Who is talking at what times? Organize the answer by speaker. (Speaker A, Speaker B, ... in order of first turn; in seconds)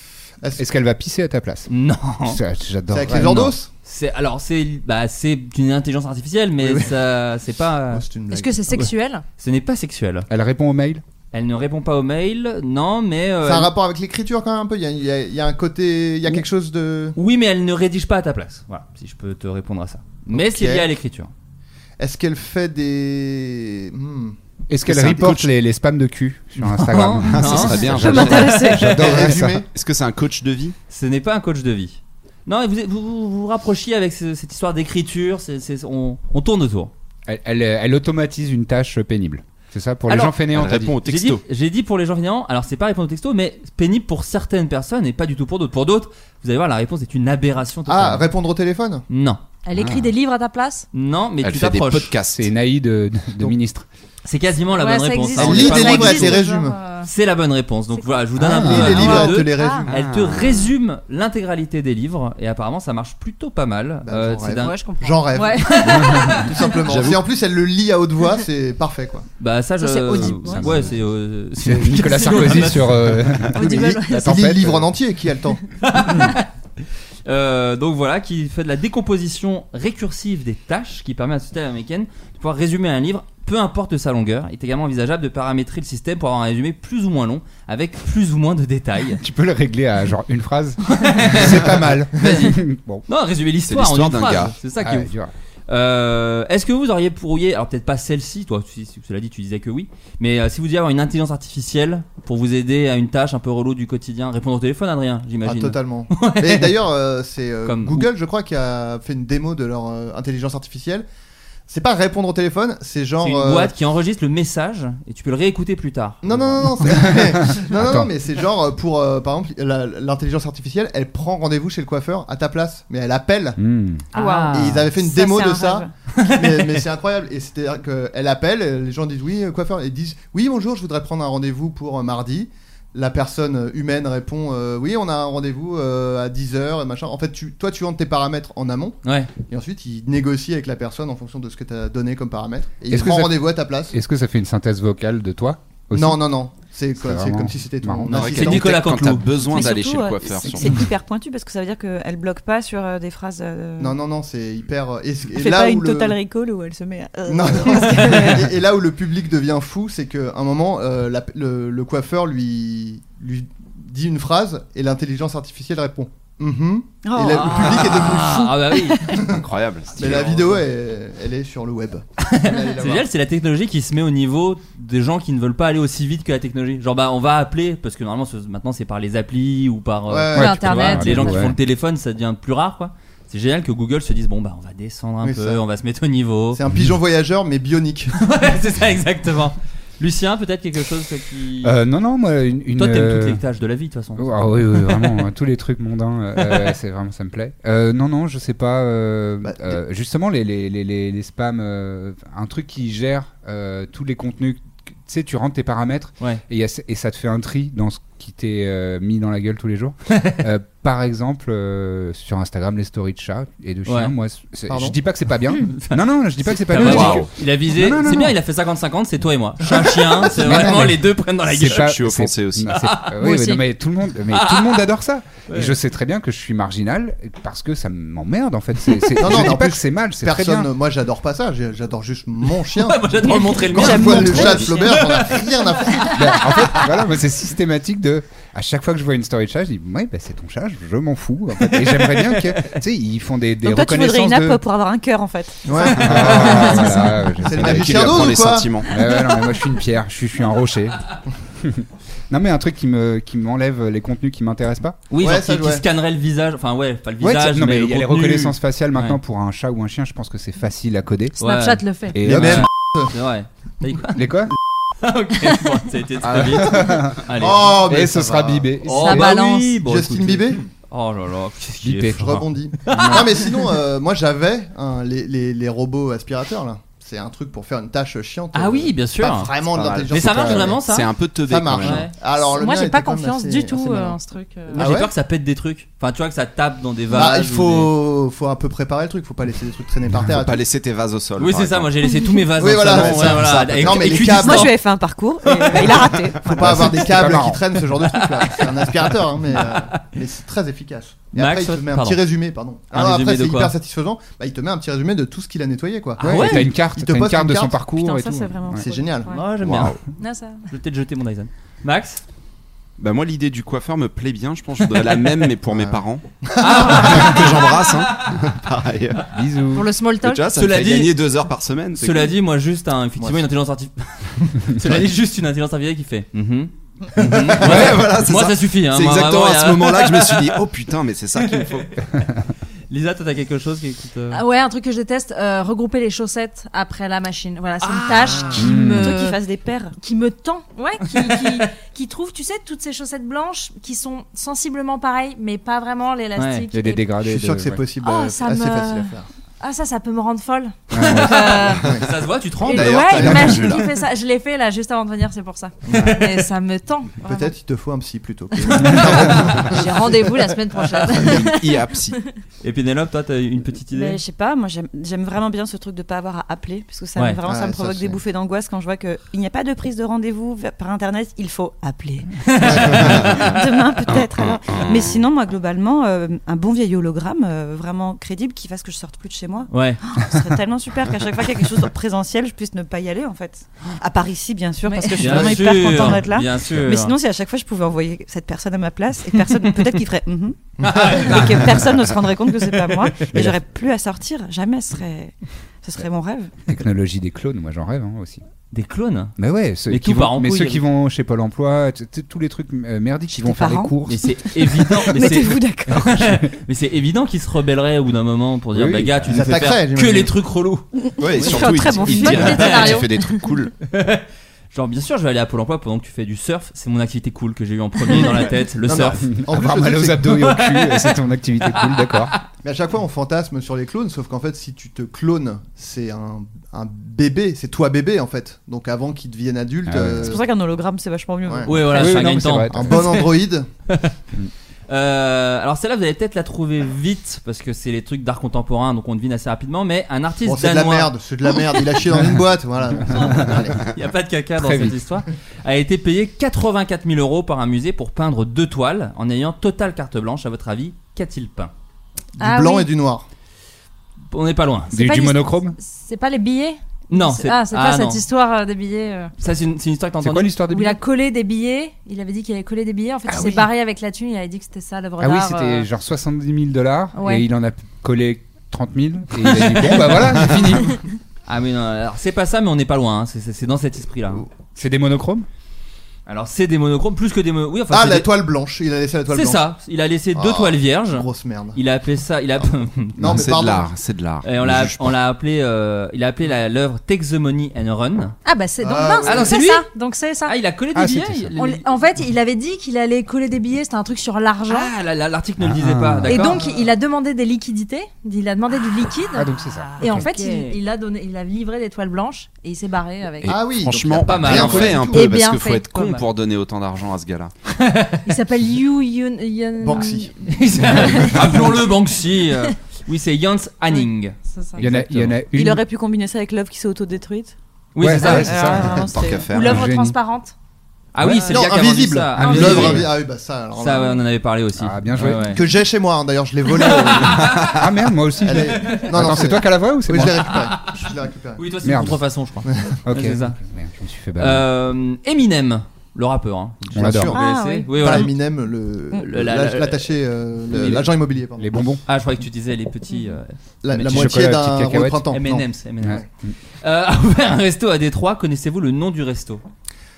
Speaker A: 0.6-1.7, 2.2-3.6, 10.3-11.0, 24.7-29.6, 37.2-41.0, 52.3-53.9, 58.4-59.1, 70.1-71.0, 71.5-74.9, 89.2-93.0, 94.8-95.3, 116.8-118.1, 123.6-124.0, 142.9-146.2, 147.0-148.2, 180.3-181.6, 191.6-193.4, 194.2-218.4, 220.2-230.7, 233.8-234.5, 236.1-244.6, 246.0-255.0, 257.2-261.4, 262.1-262.7, 264.1-264.5, 266.2-269.3, 271.8-272.4, 280.2-280.7, 296.6-297.6, 306.2-308.9, 319.3-319.9, 338.6-339.2, 346.7-347.8, 350.9-351.7, 353.2-353.4, 396.7-398.4, 399.4-404.3, 408.7-409.5, 419.2-422.3, 429.9-430.4, 431.9-433.2, 443.1-443.6, 444.6-445.0, 454.9-455.8, 460.2-461.0, 463.3-463.6, 465.2-471.0, 474.7-475.5, 490.9-491.5, 495.6-496.6, 499.3-500.3, 514.8-515.8, 518.0-520.2, 521.2-521.5, 522.4-523.1, 524.8-525.6, 527.7-530.5, 531.8-532.2, 533.0-534.7, 536.9-537.4, 541.6-542.0, 544.0-545.3, 546.0-546.5
Speaker B: 1.7-2.4, 3.8-8.0, 9.4-10.3, 11.3-13.7, 17.1-21.3, 26.6-29.2, 30.9-36.9, 40.1-40.3, 41.0-48.3, 49.1-49.4, 50.9-52.1, 54.2-56.4, 57.0-64.8, 65.6-66.7, 69.4-73.3, 75.8-76.5, 77.2-89.2, 90.9-95.1, 95.7-106.7, 107.6-108.1, 113.2-116.7, 124.1-124.9, 126.2-126.4, 139.0-139.3, 148.1-149.3, 167.3-169.1, 169.9-170.5, 172.2-186.6, 188.1-191.7, 192.7-195.2, 210.1-210.4, 213.8-214.1, 215.7-222.0, 222.7-223.1, 224.3-224.9, 225.5-225.8, 232.4-236.9, 241.7-242.7, 246.2-246.5, 255.1-259.2, 261.4-264.2, 265.0-267.9, 268.8-273.5, 278.5-281.1, 281.8-282.1, 284.7-287.9, 291.4-294.8, 295.5-295.9, 298.1-298.9, 299.5-300.0, 301.3-302.2, 302.9-303.7, 306.2-306.7, 309.3-310.0, 310.7-312.2, 316.6-318.4, 320.5-321.2, 322.0-330.6, 331.4-331.9, 332.9-334.4, 337.8-338.7, 341.2-341.6, 346.4-346.6, 351.3-353.3, 355.9-356.3, 358.8-359.5, 362.6-364.2, 372.5-373.4, 379.7-380.0, 385.2-387.1, 390.8-391.9, 398.7-399.3, 399.9-400.8, 404.1-410.8, 411.4-413.0, 413.9-419.3, 420.3-421.1, 421.7-422.4, 431.6-433.3, 434.9-441.1, 443.8-451.7, 454.3-455.0, 457.1-458.2, 459.4-460.5, 469.4-470.2, 471.5-474.4, 476.2-478.3, 479.3-483.4, 484.4-488.3, 489.2-489.9, 490.4-491.9, 494.7-496.6, 500.0-500.8, 504.2-505.1, 505.9-506.2, 507.8-508.2, 510.4-515.3, 517.9-518.7, 521.1-523.1, 523.8-525.6, 526.7-527.8, 528.8-529.1, 530.5-533.6, 534.4-538.3, 539.2-540.2, 540.7-541.1, 542.0-544.4, 545.3-546.2, 546.8-549.6
Speaker C: 2.9-3.7, 6.6-6.9, 7.9-8.9, 13.4-17.2, 20.3-20.9, 22.0-24.4, 29.0-29.7, 47.9-49.0, 55.4-56.8, 58.4-59.9, 64.0-69.3, 73.5-75.6, 105.4-111.0, 111.7-113.7, 116.2-123.6, 124.5-143.9, 145.9-148.8, 153.8-156.2, 157.3-168.5, 169.1-169.4, 169.9-173.1, 180.1-181.1, 185.2-185.6, 186.5-188.1, 199.4-199.8, 214.7-214.9, 229.2-236.4, 245.7-248.8, 255.2-255.8, 262.2-263.1, 267.3-268.7, 269.8-270.6, 272.1-280.8, 281.4-284.2, 284.7-285.1, 287.1-290.6, 292.6-294.8, 295.8-307.8, 308.8-309.3, 315.8-317.3, 323.2-323.5, 347.2-349.2, 353.2-353.5, 355.9-356.2, 357.2-360.4, 367.4-368.2, 390.8-391.3, 409.3-410.4, 418.8-420.5, 422.6-430.5, 431.4-432.0, 432.7-433.7, 440.4-443.9, 452.4-453.2, 477.9-479.7, 480.3-481.8, 483.2-483.9, 488.8-489.6, 496.5-496.9, 503.4-505.3, 509.8-510.3, 521.4-524.2, 525.3-527.6, 528.4-531.7, 536.9-542.0, 543.8-546.2
Speaker D: 8.3-9.2, 49.6-50.9, 54.7-57.1, 58.7-59.9, 64.6-66.4, 69.8-70.7, 72.3-72.7, 73.5-74.4, 180.3-181.4, 223.2-223.6, 261.4-262.1, 269.0-269.8, 282.4-284.9, 310.2-310.7, 319.7-320.4, 334.3-339.4, 340.0-347.1, 348.0-351.9, 352.6-357.5, 358.9-362.2, 384.8-386.2, 411.9-413.3, 452.4-452.9, 455.0-459.3, 460.7-465.9, 467.1-467.4, 488.4-490.6, 491.6-494.9, 496.3-503.5, 505.1-505.9, 508.2-511.6, 514.5-514.8, 519.5-520.5, 522.4-523.0
Speaker E: 24.9-25.5, 27.4-28.5, 29.7-30.8, 40.5-41.4, 49.8-50.0, 51.4-52.5, 59.9-60.7, 66.9-67.2, 93.7-94.5, 148.1-150.7, 169.3-170.5, 216.8-217.3, 221.7-222.7, 247.5-248.9, 279.8-282.1, 290.3-291.9, 292.8-293.8, 309.6-309.9, 313.0-316.2, 316.8-319.3, 320.2-322.3, 327.6-331.9, 352.6-353.9, 361.2-362.2, 374.4-375.2, 411.2-413.7, 483.2-485.2, 503.4-507.5, 519.0-519.9
Speaker F: 28.0-28.9, 124.2-125.9, 149.4-154.0, 155.3-158.5, 167.0-168.5, 233.3-234.8, 243.6-245.9, 294.2-296.9, 307.9-309.4, 339.0-339.9, 363.9-396.7, 403.3-403.9, 404.5-406.2, 411.2-412.7, 430.2-432.1, 515.5-517.5, 518.2-519.5, 537.3-538.3